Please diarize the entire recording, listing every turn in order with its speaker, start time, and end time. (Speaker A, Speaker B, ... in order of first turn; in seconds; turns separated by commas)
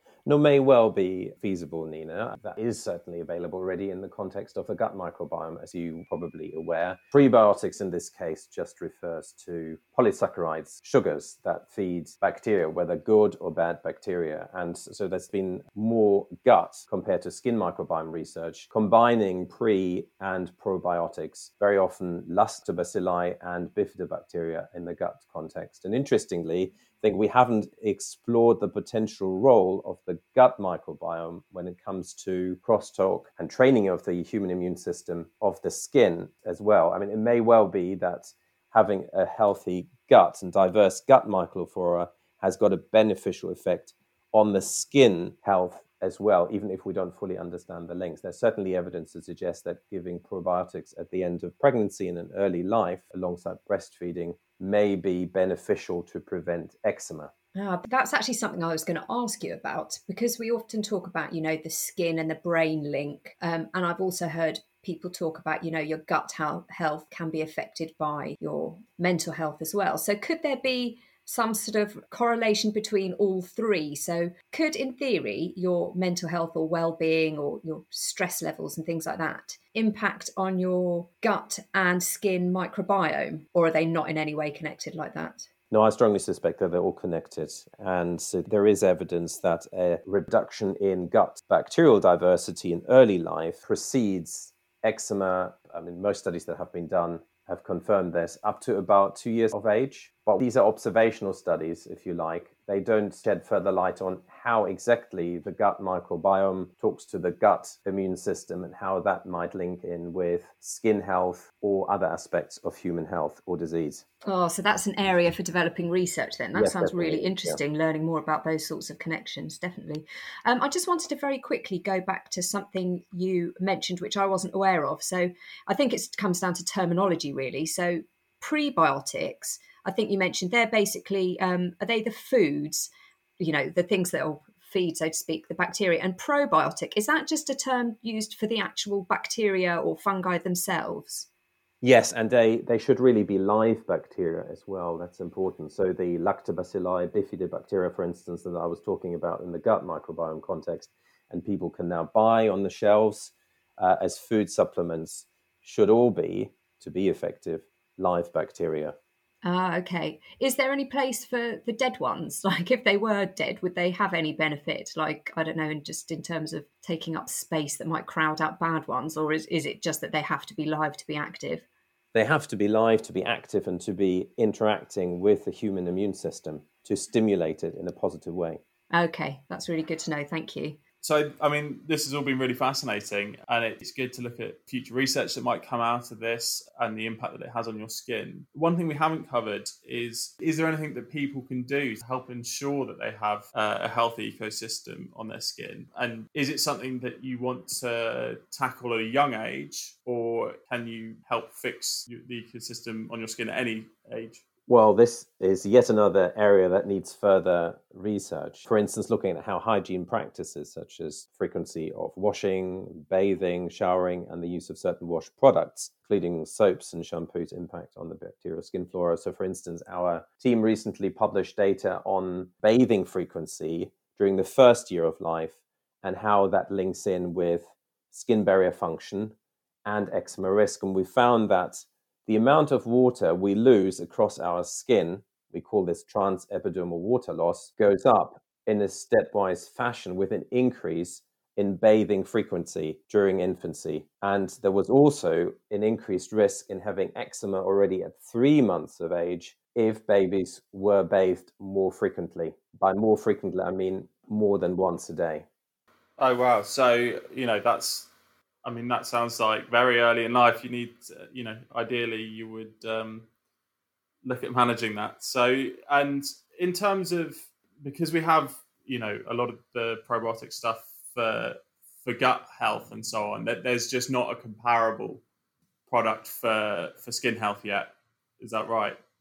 Speaker A: 0.2-57.3, Speaker B: 57.5-85.5, Speaker A: 85.7-114.0, Speaker B: 114.2-141.3, Speaker A: 116.5-117.6, Speaker A: 141.8-158.9, Speaker B: 159.4-171.7, Speaker A: 172.1-178.6, Speaker B: 178.9-180.8, Speaker C: 181.0-204.4, Speaker A: 204.7-255.4, Speaker C: 256.2-258.1, Speaker C: 258.6-263.2, Speaker C: 264.2-275.2, Speaker C: 275.9-279.0